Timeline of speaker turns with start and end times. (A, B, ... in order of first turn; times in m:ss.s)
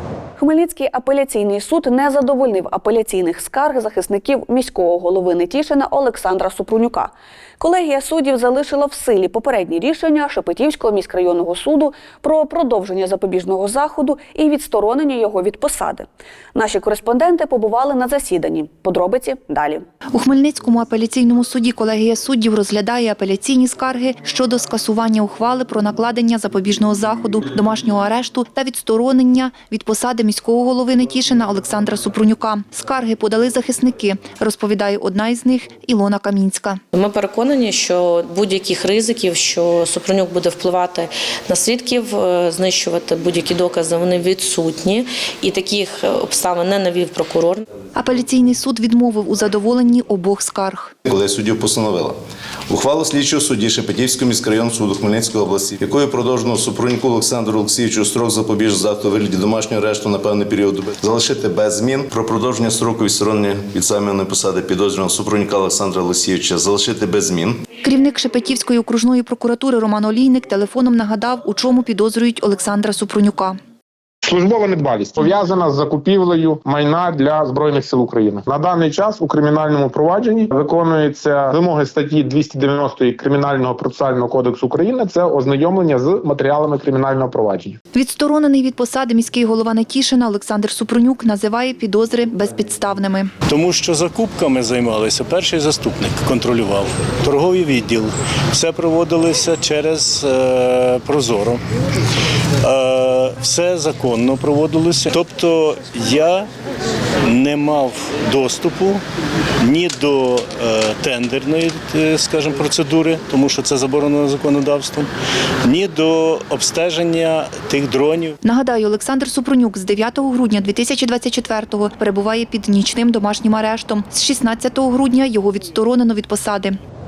0:00.4-0:19.8 A
0:20.1-0:36.8 B
0:36.9-0:47.6 C
0:47.9-0:50.9 B
0:51.0-0:52.2 D
0:52.7-1:07.6 D
1:07.8-1:13.6 B
1:14.2-1:27.8 E
1:27.9-1:33.3 B
1:33.5-1:41.6 F
1:42.6-1:46.5 F
1:47.2-1:49.0 F
1:49.6-1:55.1 F
1:55.6-1:58.4 F
1:58.4-2:06.8 B